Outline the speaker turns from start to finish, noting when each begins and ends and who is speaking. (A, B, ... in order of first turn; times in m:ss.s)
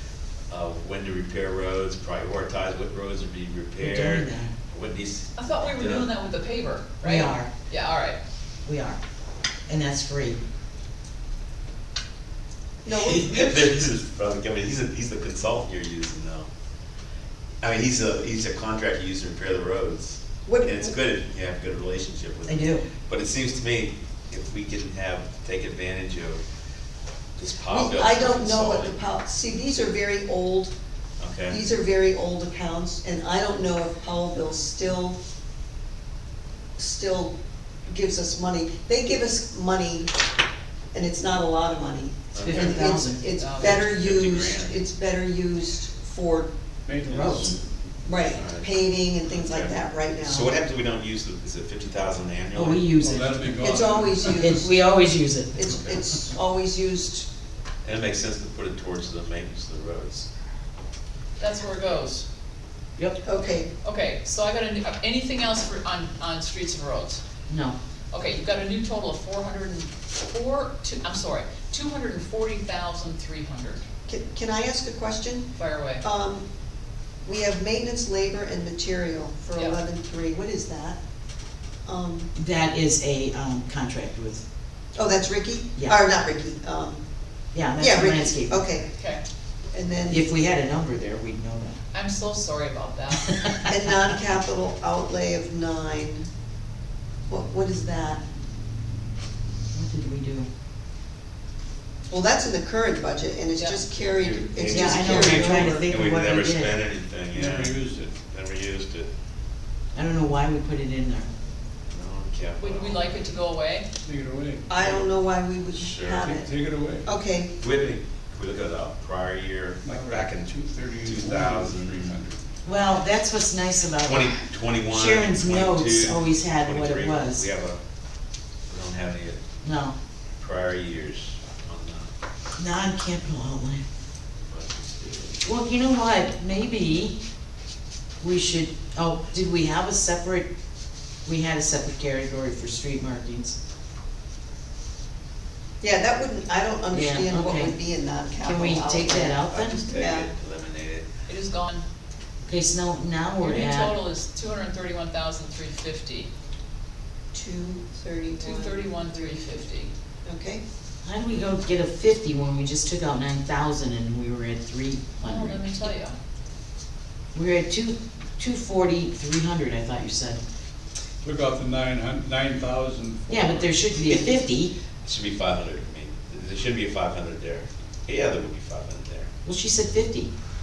0:00.5-0:06.1 A
0:03.8-0:04.5 B
0:05.3-0:08.2 C
0:07.0-0:07.5 B
0:08.6-0:09.0 B
0:09.7-0:10.4 B
0:12.8-0:13.7 D
0:12.8-0:16.5 A
0:17.6-0:26.4 A
0:20.4-0:20.9 D
0:22.5-0:22.8 B
0:27.4-0:29.0 A
0:27.7-0:30.7 D
0:31.2-0:31.6 A
0:31.5-0:35.2 D
0:36.8-0:37.3 D
0:37.9-0:40.1 D
0:40.9-0:46.5 D
0:42.3-0:42.9 A
0:42.4-0:43.2 B
0:43.3-0:43.9 C
0:43.6-0:44.8 A
0:46.8-0:47.6 E
0:47.1-0:47.5 B
0:48.0-0:50.5 D
0:48.3-0:48.7 A
0:49.3-0:52.9 A
0:52.5-0:55.7 B
0:53.0-0:54.5 E
0:53.6-0:54.8 D
0:55.5-0:57.3 D
0:57.8-1:00.3 A
1:01.4-1:02.2 C
1:03.2-1:03.7 D
1:03.8-1:07.2 C
1:07.5-1:07.8 B
1:08.1-1:13.8 C
1:14.1-1:16.4 D
1:15.6-1:16.0 C
1:17.2-1:21.0 D
1:19.5-1:19.8 C
1:21.8-1:22.3 D
1:22.3-1:24.4 B
1:25.0-1:27.0 D
1:27.5-1:28.6 B
1:27.8-1:28.9 D
1:29.7-1:30.2 D
1:30.1-1:31.8 B
1:31.9-1:33.5 C
1:33.6-1:36.3 D
1:37.3-1:38.2 D
1:39.7-1:40.5 B
1:42.1-1:45.8 D
1:43.6-1:43.8 C
1:44.2-1:49.1 A
1:44.6-1:46.8 B
1:47.3-1:48.1 E
1:49.9-1:51.3 B
1:51.9-1:53.1 A
1:52.6-1:53.9 C
1:54.0-1:54.8 E
1:54.7-1:56.5 D
1:55.7-1:56.3 A
1:56.1-1:57.1 E
1:57.0-1:57.5 D
1:57.6-2:02.2 A
1:59.8-2:02.5 E
2:02.6-2:04.3 B
2:04.0-2:07.8 A
2:04.9-2:07.5 B
2:08.7-2:09.4 A
2:09.6-2:10.0 B
2:10.4-2:12.1 A
2:12.6-2:13.8 B
2:14.5-2:15.5 A
2:15.4-2:17.2 B
2:18.2-2:20.5 B
2:21.2-2:23.6 B
2:25.8-2:30.3 D
2:26.9-2:27.8 B
2:28.4-2:29.8 B
2:29.5-2:31.1 A
2:31.3-2:31.8 C
2:32.5-2:34.0 B
2:33.4-2:36.3 C
2:37.3-2:39.7 D
2:38.4-2:39.9 C
2:40.2-2:40.6 D
2:41.0-2:45.8 B
2:45.2-2:46.2 C
2:47.3-2:50.4 B
2:51.2-2:53.7 E
2:53.3-2:54.7 B
2:55.0-2:59.3 A
2:59.4-3:00.3 B